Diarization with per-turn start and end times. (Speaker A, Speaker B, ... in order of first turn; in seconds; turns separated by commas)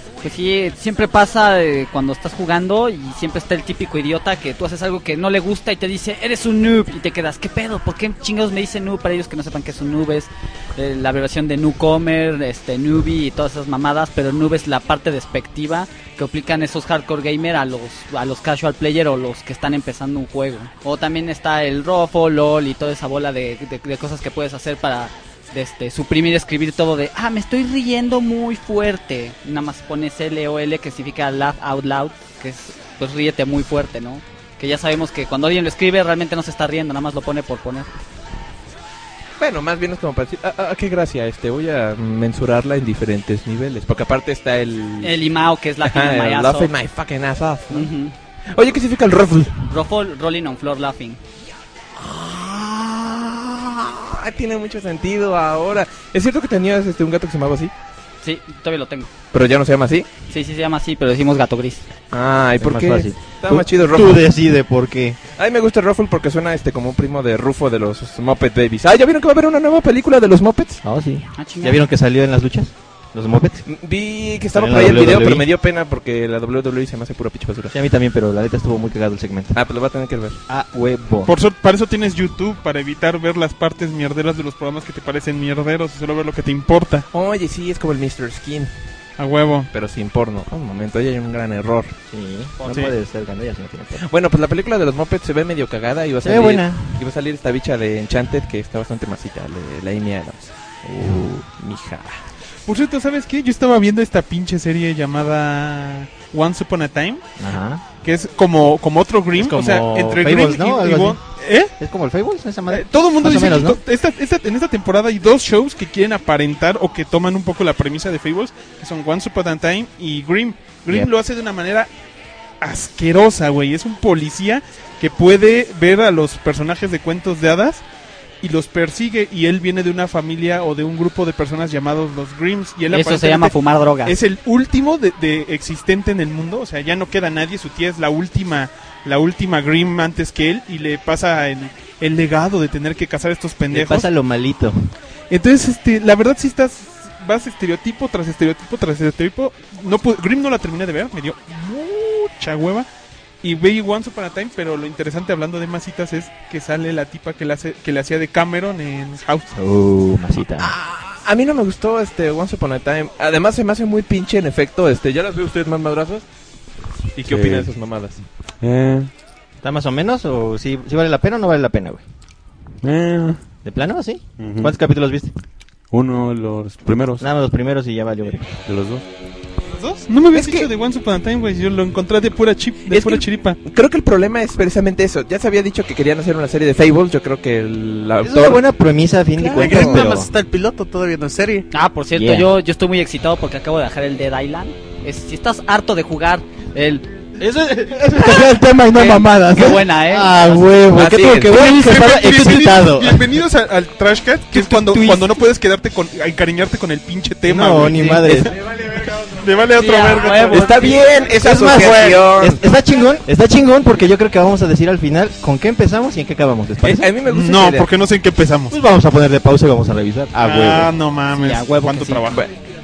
Speaker A: 0.2-37.9, Speaker B: 39.4-45.1, Speaker A: 45.0-46.7, Speaker B: 45.9-47.9, Speaker A: 47.7-48.1, Speaker B: 48.5-49.7, Speaker A: 49.7-51.2, Speaker B: 52.0-57.7, Speaker A: 58.2-59.1, Speaker B: 59.3-60.1, Speaker A: 60.3-61.8, Speaker B: 62.1-64.2, Speaker C: 62.6-65.2, Speaker B: 65.4-70.8, Speaker C: 70.8-73.6, Speaker A: 71.4-71.8, Speaker B: 73.7-77.7, Speaker C: 74.5-75.5, Speaker C: 77.7-79.6, Speaker B: 79.5-80.4, Speaker C: 80.5-81.3, Speaker D: 81.3-87.1, Speaker B: 87.1-88.7, Speaker D: 89.2-89.7, Speaker B: 89.7-91.9, Speaker C: 92.1-94.0, Speaker D: 92.7-92.9, Speaker B: 94.0-102.2, Speaker C: 96.2-96.9, Speaker C: 101.0-101.3, Speaker D: 102.7-107.2, Speaker C: 107.4-107.8, Speaker D: 108.0-111.7, Speaker C: 109.3-111.2, Speaker C: 111.8-113.8, Speaker D: 112.7-121.9, Speaker D: 122.6-127.8, Speaker D: 128.4-144.1, Speaker A: 132.9-134.2, Speaker C: 143.7-144.9, Speaker D: 145.3-152.9, Speaker D: 153.4-159.5, Speaker C: 159.5-160.7, Speaker B: 160.6-166.2, Speaker B: 167.2-168.2, Speaker E: 167.2-167.7, Speaker E: 168.6-169.1, Speaker C: 169.6-172.0, Speaker E: 172.8-173.4, Speaker C: 173.6-175.3, Speaker E: 174.4-174.8, Speaker E: 175.9-177.3, Speaker C: 177.2-178.5, Speaker E: 178.7-179.0, Speaker D: 179.8-183.6, Speaker B: 180.3-180.7, Speaker B: 182.9-188.6, Speaker C: 188.2-190.3, Speaker B: 189.4-190.1, Speaker F: 189.5-191.7, Speaker A: 191.7-197.1, Speaker C: 192.2-192.5, Speaker C: 197.4-198.4, Speaker G: 198.0-199.9, Speaker A: 198.9-200.7, Speaker C: 200.1-203.3, Speaker B: 200.9-201.6, Speaker G: 201.5-202.0, Speaker D: 201.6-212.3, Speaker A: 204.5-205.2, Speaker C: 207.4-208.5, Speaker A: 209.8-210.9, Speaker B: 210.5-212.6, Speaker C: 211.4-217.1, Speaker B: 216.8-217.9, Speaker D: 217.2-218.8, Speaker C: 218.7-220.9, Speaker D: 220.4-222.5, Speaker A: 221.3-222.3